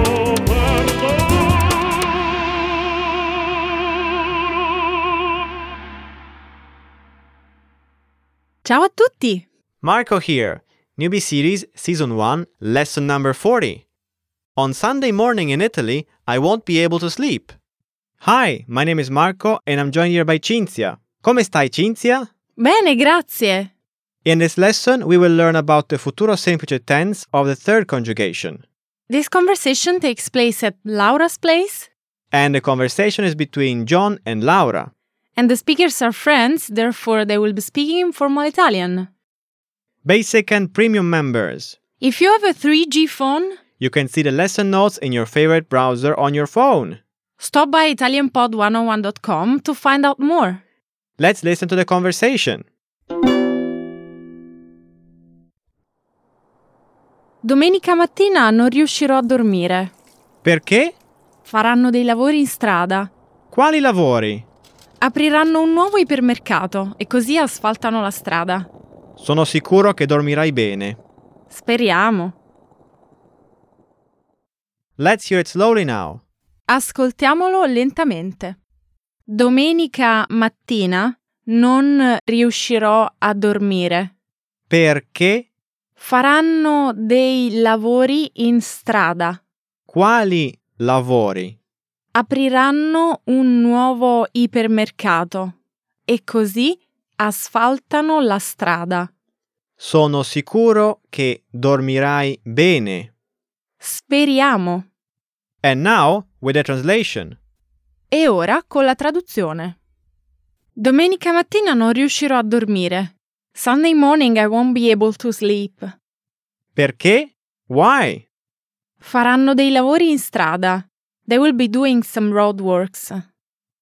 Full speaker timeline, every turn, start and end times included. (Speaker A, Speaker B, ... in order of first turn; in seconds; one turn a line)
Speaker A: 8.6-9.5
Speaker B: 9.8-13.8
Speaker B: 14.6-17.6
Speaker B: 18.2-22.3
Speaker A: 22.6-23.7
Speaker B: 24.2-28.6
Speaker A: 29.1-31.9
Speaker B: 32.3-34.9
Speaker A: 35.4-39.1
Speaker B: 40.0-41.8
Speaker A: 42.0-43.6
Speaker B: 43.8-47.0
Speaker A: 47.4-50.6
Speaker B: 51.2-52.7
Speaker A: 57.4-59.9
Speaker B: 60.4-61.0
Speaker A: 61.5-63.1
Speaker B: 63.5-64.5
Speaker A: 65.0-68.7
Speaker B: 69.2-71.0
Speaker A: 71.5-72.4
Speaker B: 75.0-76.2
Speaker A: 76.7-78.6
Speaker A: 79.3-84.1
Speaker B: 84.7-85.5
Speaker A: 86.0-89.4
Speaker B: 89.9-91.6
Speaker A: 92.1-95.5
Speaker A: 96.1-99.1
Speaker B: 99.8-103.1
Speaker A: 103.8-104.9
Speaker B: 105.6-107.4
Speaker A: 108.1-109.8
Speaker A: 110.8-115.9
Speaker B: 116.8-118.2
Speaker A: 119.0-123.2